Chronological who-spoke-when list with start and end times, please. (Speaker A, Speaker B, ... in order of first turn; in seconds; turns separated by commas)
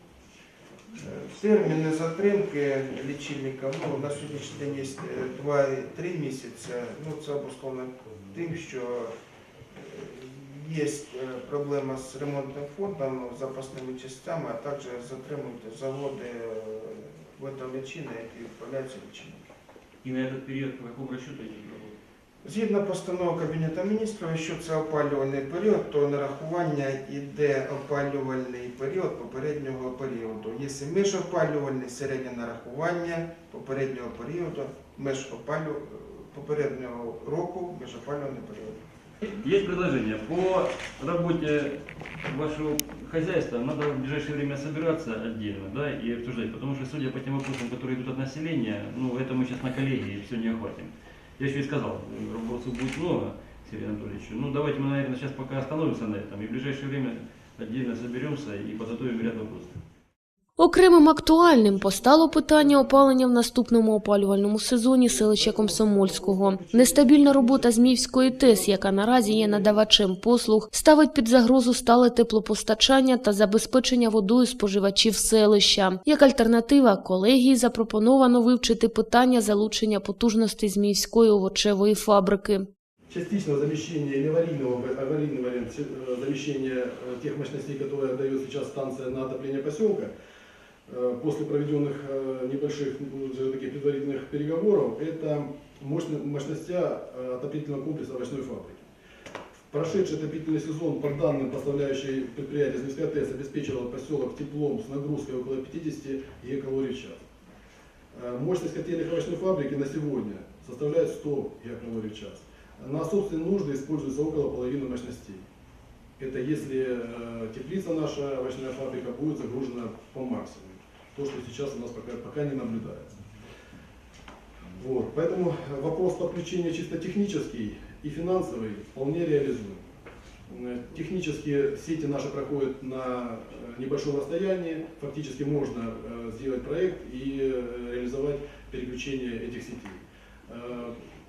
Speaker A: 0.9-9.1, Speaker A: 9.7-19.4, Speaker B: 20.0-22.0, Speaker A: 22.4-38.8, Speaker B: 39.3-59.8, Speaker C: 60.6-82.7, Speaker D: 62.4-62.9, Speaker D: 65.0-69.8, Speaker D: 83.1-90.1, Speaker D: 90.9-98.8, Speaker D: 99.7-107.2, Speaker D: 108.1-115.4, Speaker D: 116.2-123.2, Speaker D: 124.8-129.8, Speaker D: 130.5-141.0